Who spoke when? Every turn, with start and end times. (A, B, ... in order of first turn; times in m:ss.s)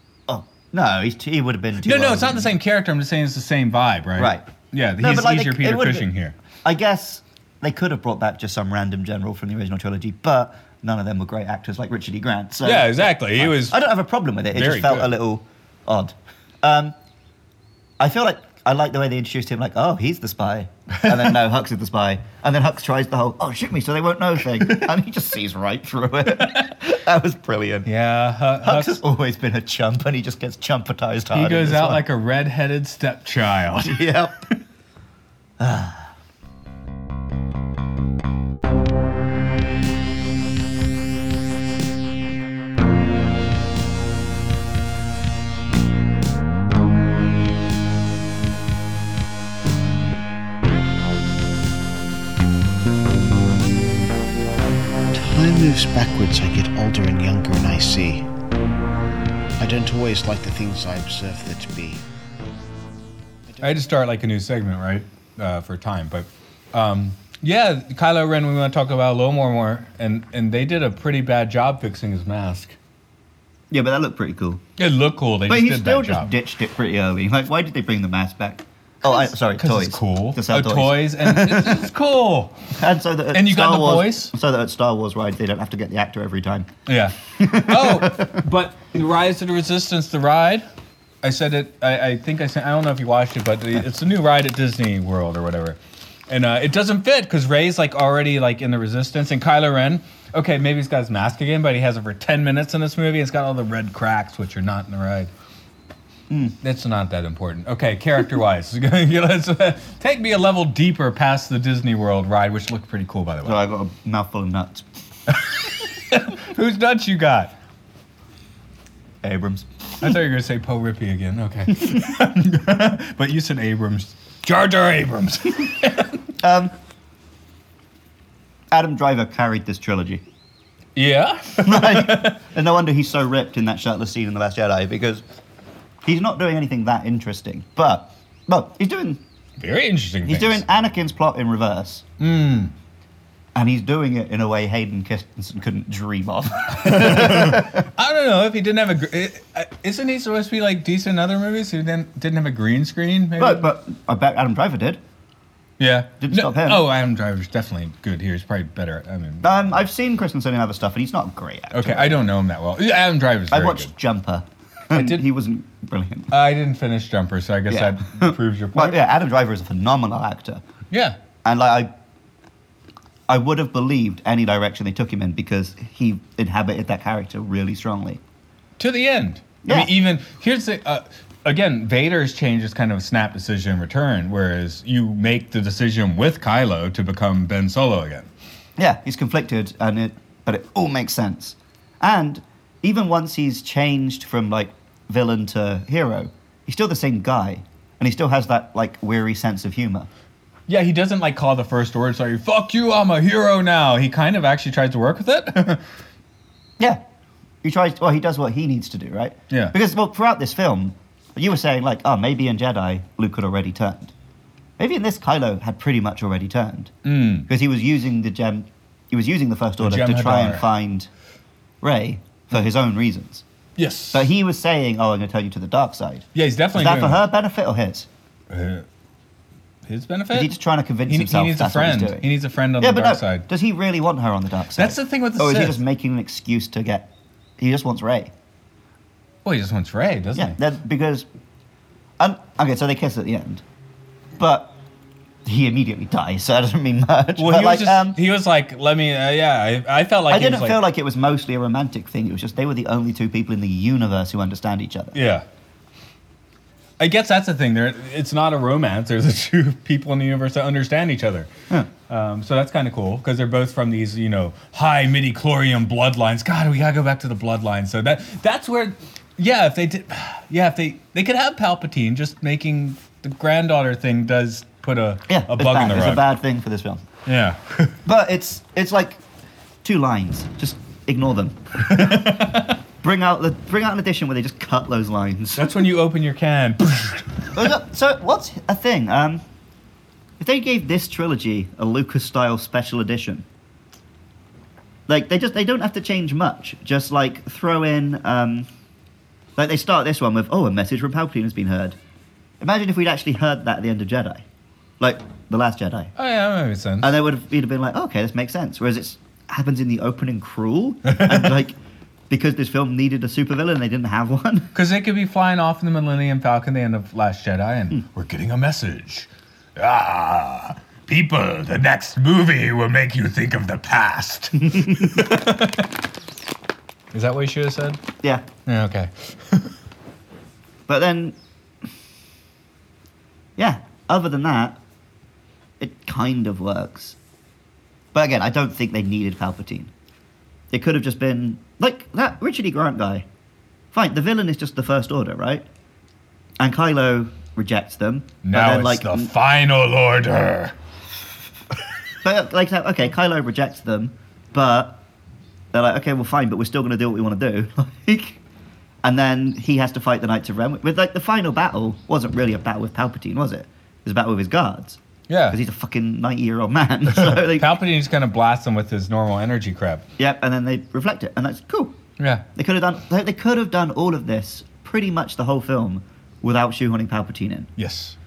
0:00.3-0:02.5 A
0:01.8-0:06.4 B
0:04.2-0:04.4 A
0:05.0-0:06.1 A
0:06.6-0:16.9 A
0:12.6-0:13.8 B
0:14.5-0:15.1 B
0:18.0-0:27.9 A
0:26.4-0:26.7 B
0:27.8-0:29.0 B
0:28.6-0:32.0 A
0:31.3-0:34.1 B
0:33.8-0:34.4 A
0:35.6-0:36.1 A
0:55.1-0:58.2 C
0:59.6-1:02.0 C
1:03.6-1:12.8 B
1:13.7-1:14.6 A
1:14.8-1:16.3 B
1:15.5-1:21.9 A
1:19.0-1:22.6 B
1:22.8-1:26.7 A
1:23.3-1:24.3 B
1:26.8-1:30.6 B
1:27.4-1:28.4 A
1:31.2-1:45.3 B
1:46.3-1:46.5 A
1:46.6-1:53.6 B
1:53.4-1:54.9 A
1:56.1-1:57.5 B
1:59.2-2:00.0 A
2:00.0-2:06.2 B
2:06.4-2:06.7 A
2:08.7-2:10.2 A
2:11.0-2:12.4 B
2:11.6-2:15.2 A
2:16.0-2:19.2 A
2:19.6-2:20.6 B
2:20.2-2:22.0 A
2:22.2-2:22.7 B
2:23.5-2:27.9 A
2:26.8-2:33.7 B
2:33.4-2:35.0 A
2:35.8-2:39.5 B
2:36.2-2:36.9 A
2:39.4-2:42.2 A
2:41.7-2:43.9 B
2:43.5-2:46.3 A
2:44.9-2:45.2 B
2:46.3-2:49.0 B
2:47.7-2:50.6 A
2:50.9-2:51.2 B
2:51.4-2:51.9 A
2:53.3-2:58.2 A
2:58.8-3:08.3 B
2:59.6-2:59.9 A
3:08.8-3:20.1 A
3:20.7-3:25.8 B
3:27.6-3:34.1 A
3:34.8-3:36.9 A
3:37.0-3:37.5 B
3:37.5-3:41.1 A
3:39.8-3:40.6 B
3:41.8-3:43.4 A
3:43.8-3:44.3 B
3:44.1-3:48.1 A
3:46.3-3:47.2 B
3:48.5-3:48.8 B
3:49.8-3:50.5 B
3:50.3-3:52.3 A
3:51.1-3:53.5 B
3:52.8-3:58.3 A
3:54.8-3:55.8 B
3:59.4-4:00.6 B
4:00.3-4:01.2 A
4:02.2-4:03.6 A
4:04.4-4:04.7 A
4:05.4-4:08.2 A
4:07.4-4:10.8 B
4:10.3-4:15.2 A
4:15.1-4:15.4 B
4:17.0-4:21.5 B
4:22.1-4:36.2 B
4:35.3-4:37.0 A
4:37.2-4:38.0 B
4:38.0-4:39.2 A
4:39.8-4:42.4 A
4:41.9-4:42.8 B
4:43.0-4:45.7 A
4:45.6-4:47.3 B
4:47.5-4:49.4 A
4:50.4-4:53.4 A
4:55.1-4:58.7 A
4:59.6-5:02.0 A
5:02.6-5:04.4 A
5:05.0-5:06.1 A
5:06.2-5:07.1 B
5:07.0-5:11.8 A
5:11.1-5:11.4 B
5:12.3-5:14.7 A
5:14.7-5:25.9 B
5:24.6-5:25.2 A
5:27.1-5:28.0 B
5:28.6-5:29.7 B
5:30.9-5:31.4 A
5:33.6-5:34.8 A
5:35.8-5:37.2 A
5:38.1-5:39.9 A
5:40.7-5:43.2 A
5:43.9-5:45.6 A
5:46.6-5:49.3 A
5:48.4-5:50.7 B
5:52.2-5:55.0 A
5:55.7-5:58.4 A
5:59.0-6:05.0 A
6:05.3-6:05.6 B
6:05.5-6:07.8 A
6:07.1-6:10.0 B
6:10.2-6:11.9 A
6:12.2-6:12.4 B
6:12.5-6:17.7 A
6:17.8-6:18.2 B